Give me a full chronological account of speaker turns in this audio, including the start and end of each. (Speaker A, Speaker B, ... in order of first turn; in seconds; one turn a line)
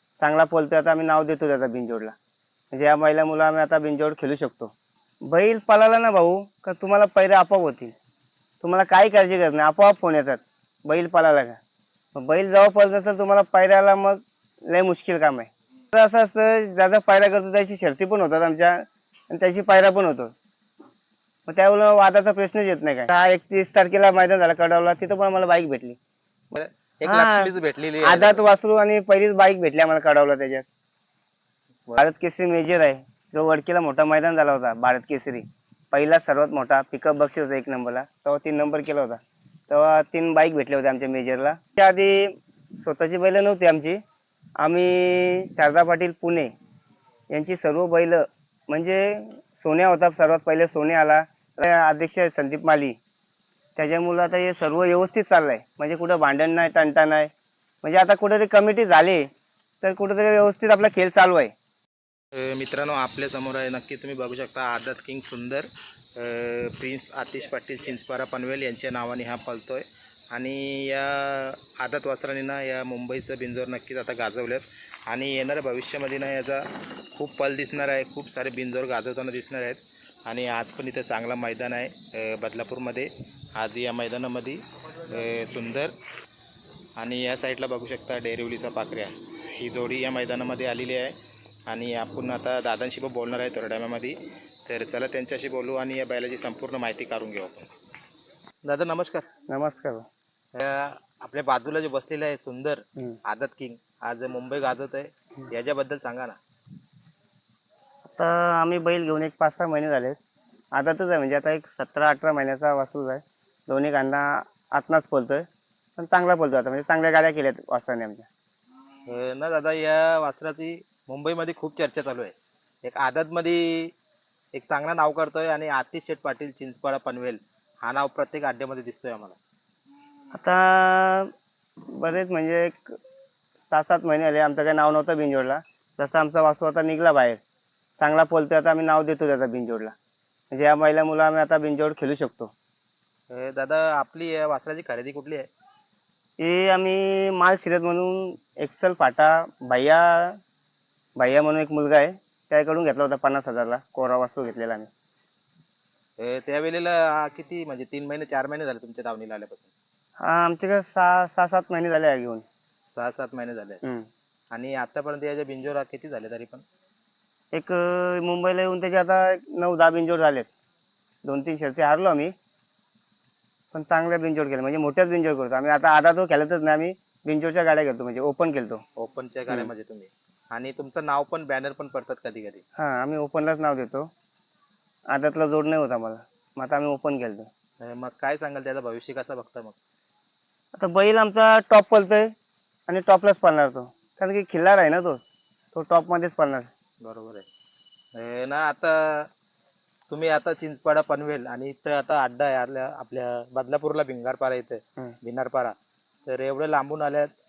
Speaker A: 0.2-2.2
Speaker A: 2.7-4.7
Speaker A: 5.2-8.0
Speaker A: 8.6-11.6
Speaker A: 12.2-20.3
Speaker A: 21.5-26.0
Speaker B: 26.5-28.4
Speaker A: 27.1-27.5
Speaker A: 28.0-30.7
Speaker A: 32.0-44.0
Speaker A: 44.6-46.5
Speaker A: 47.3-53.0
Speaker A: 53.8-57.3
Speaker A: 57.8-59.3
Speaker A: 59.8-61.5
Speaker B: 62.3-86.0
Speaker B: 87.0-91.2
Speaker B: 91.7-97.7
Speaker B: 98.7-99.3
Speaker A: 99.5-100.1
Speaker B: 100.5-106.4
Speaker A: 108.1-110.2
Speaker A: 110.8-115.5
Speaker A: 116.0-118.3
Speaker B: 119.1-123.9
Speaker B: 124.5-129.4
Speaker A: 130.3-131.3
Speaker A: 131.9-133.0
Speaker A: 133.6-137.4
Speaker A: 138.0-139.9
Speaker A: 140.5-142.5
Speaker B: 143.3-145.5
Speaker A: 146.4-150.4
Speaker A: 151.2-154.9
Speaker B: 156.2-159.7
Speaker A: 160.2-162.4
Speaker B: 162.9-163.8
Speaker B: 164.5-166.6
Speaker A: 167.5-170.5
Speaker A: 171.2-172.3
Speaker A: 173.7-178.8
Speaker B: 179.0-182.6
Speaker A: 182.8-184.1
Speaker A: 185.1-187.5
Speaker B: 187.8-189.8
Speaker A: 190.8-192.3
Speaker A: 192.9-196.7
Speaker B: 197.0-197.4
Speaker B: 198.2-199.3
Speaker B: 200.1-205.8
Speaker B: 206.3-207.3